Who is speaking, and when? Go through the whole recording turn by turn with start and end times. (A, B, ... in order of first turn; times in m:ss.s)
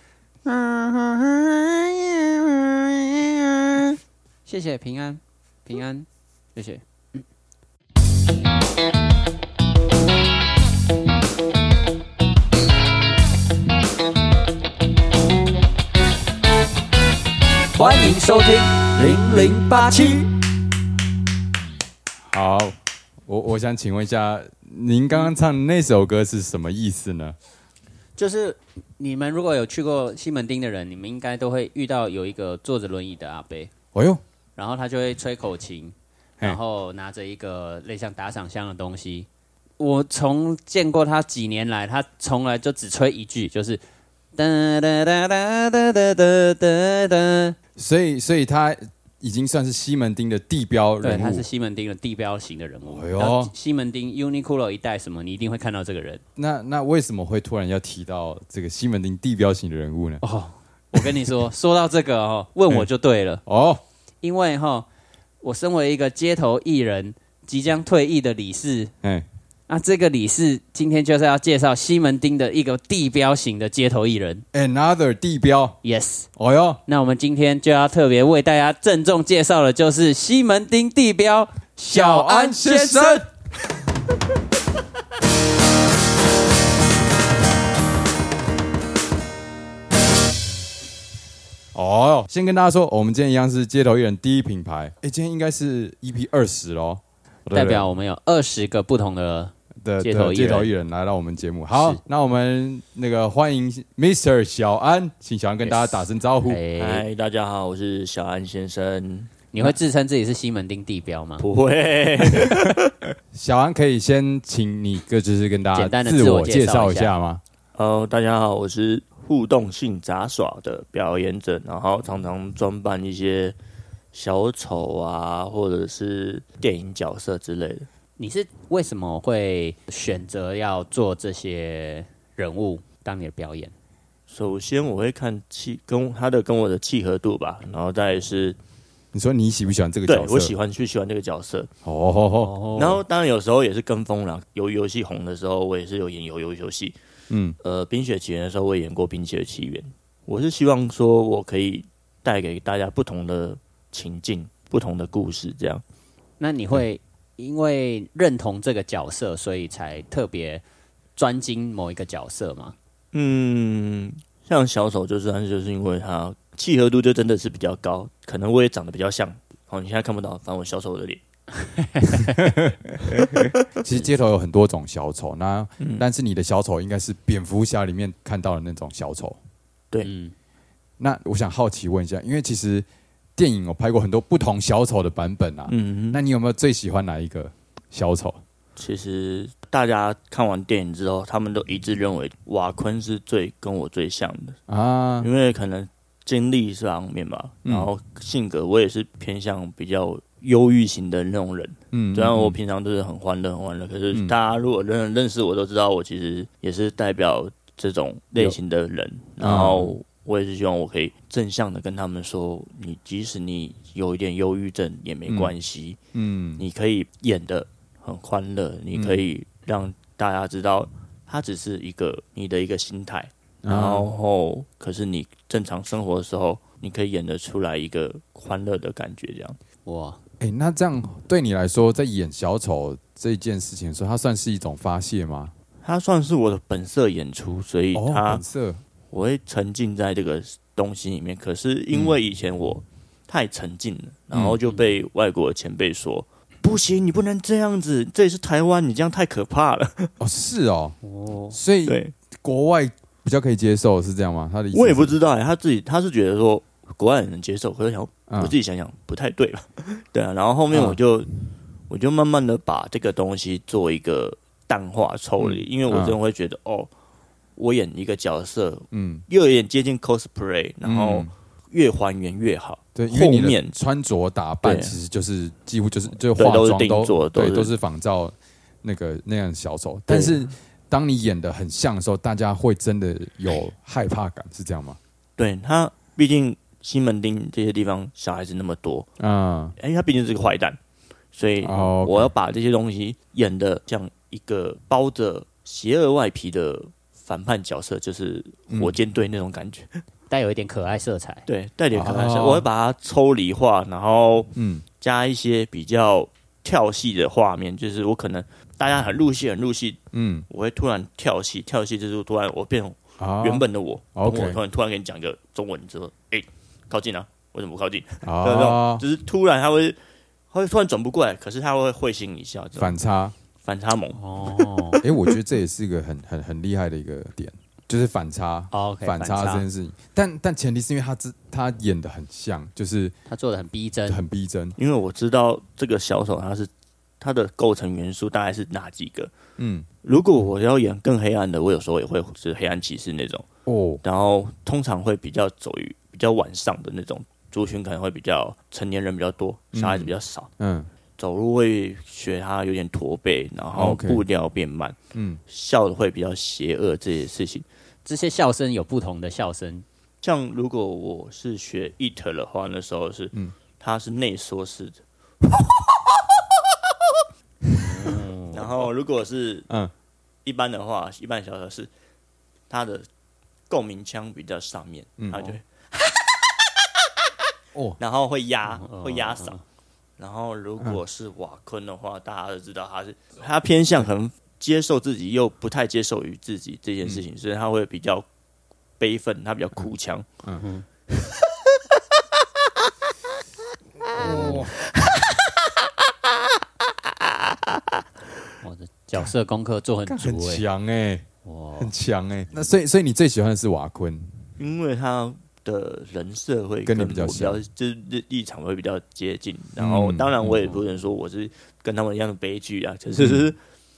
0:00.4-0:07.2 A
0:17.7-0:20.3 A
0:22.3-0:27.4 B
0:28.2-0:33.7 A
0:33.9-0:34.2 B
0:34.6-0:39.3 A
0:39.8-0:43.8 A
0:44.4-0:47.6 A
0:47.8-0:51.4 B
0:51.0-0:56.2 A
0:52.8-0:53.5 B
0:56.4-1:00.2 B
1:00.2-1:03.4 A
1:03.5-1:03.8 B
1:04.2-1:04.8 A
1:05.4-1:08.9 A
1:09.7-1:14.4 A
1:14.5-1:15.8 B
1:15.8-1:16.3 A
1:16.4-1:16.8 B
1:16.8-1:23.2 A
1:21.9-1:23.3 B
1:31.7-1:37.9 B
1:37.5-1:40.7 A
1:39.8-1:46.6 B
1:45.6-1:47.0 A
1:46.8-1:49.3 C
1:49.5-1:51.4 A
1:51.4-1:52.9 C
1:52.3-1:52.7 B
1:53.3-1:57.4 B
1:55.7-1:57.1 A
1:57.8-2:03.6 C
2:04.1-2:07.9 C
2:08.2-2:13.7 A
2:14.3-2:18.6 C
2:19.1-2:20.5 B
2:20.1-2:21.7 C
2:21.8-2:22.6 B
2:22.4-2:23.0 A
2:22.8-2:27.0 C
2:27.3-2:27.6 B
2:27.6-2:35.8 C
2:36.4-2:40.6 A
2:41.2-2:42.8 A
2:43.1-2:51.2 C
2:51.6-2:52.4 A
2:52.2-2:59.4 B
2:53.2-2:53.5 C
2:55.8-2:56.0 C
3:00.0-3:00.3 A
3:01.0-3:02.9 B
3:03.4-3:08.4 B
3:05.7-3:06.2 C
3:08.8-3:14.6 C
3:14.7-3:15.3 B
3:15.2-3:36.0 C
3:17.6-3:17.9 B
3:21.9-3:22.6 B
3:29.4-3:29.9 B
3:35.3-3:35.6 B
3:36.1-3:36.6 B
3:36.6-3:49.6 C
3:38.9-3:39.2 B
3:43.6-3:44.1 B
3:49.8-3:50.2 A
3:50.4-3:55.5 B
3:55.8-3:58.4 C
3:57.9-3:58.8 B
3:59.1-4:10.1 C
4:01.9-4:02.2 B
4:04.3-4:04.6 B
4:10.2-4:11.0 B
4:11.0-4:11.6 A
4:11.5-4:15.2 B
4:11.9-4:12.1 C
4:14.7-4:21.3 C
4:18.3-4:18.6 B
4:20.7-4:21.0 B
4:21.9-4:26.9 C
4:25.4-4:26.2 B
4:27.6-4:33.8 C
4:28.9-4:29.2 B
4:30.8-4:31.3 B
4:32.9-4:45.0 B
4:34.6-4:35.0 C
4:36.4-4:37.7 C
4:40.1-4:40.4 C
4:45.4-4:49.1 C
4:49.2-4:49.8 B
4:49.8-4:50.8 C
4:51.3-5:00.0 C
4:51.6-4:52.3 B
4:58.7-4:59.0 B
5:00.3-5:01.4 A
5:01.4-5:20.0 C
5:01.9-5:02.7 B
5:04.6-5:04.8 B
5:10.1-5:10.4 B
5:13.2-5:14.6 B
5:18.2-5:19.0 B
5:20.5-5:23.0 C
5:22.8-5:23.3 B
5:23.6-5:24.2 C
5:24.1-5:25.0 A
5:25.0-5:33.1 B
5:28.7-5:29.7 A
5:33.3-5:34.2 A
5:34.1-5:34.8 B
5:34.8-5:36.7 C
5:37.2-5:39.3 C
5:39.6-5:39.9 B
5:40.0-5:43.4 C
5:43.7-5:44.0 B
5:44.0-5:50.5 C
5:49.7-5:50.9 B
5:51.2-5:57.6 C
5:53.8-5:54.2 B
5:55.1-5:55.4 B
5:58.0-5:59.8 A
6:00.2-6:05.6 C
6:07.8-6:08.6 A
6:08.5-6:09.7 C
6:10.4-6:11.9 C
6:12.7-6:13.1 C
6:13.7-6:16.7 C
6:15.2-6:15.5 B
6:17.7-6:18.0 B
6:18.0-6:19.6 C
6:18.8-6:19.6 A
6:20.2-6:28.2 C
6:29.0-6:30.2 C
6:30.6-6:30.8 A
6:34.1-6:34.7 A
6:34.1-6:34.7 B
6:38.6-6:40.6 A
6:40.1-6:41.2 B
6:41.4-6:41.9 A
6:41.8-6:44.3 B
6:44.6-6:53.6 C
6:46.9-6:47.6 B
6:49.8-6:50.7 B
6:53.2-6:53.5 B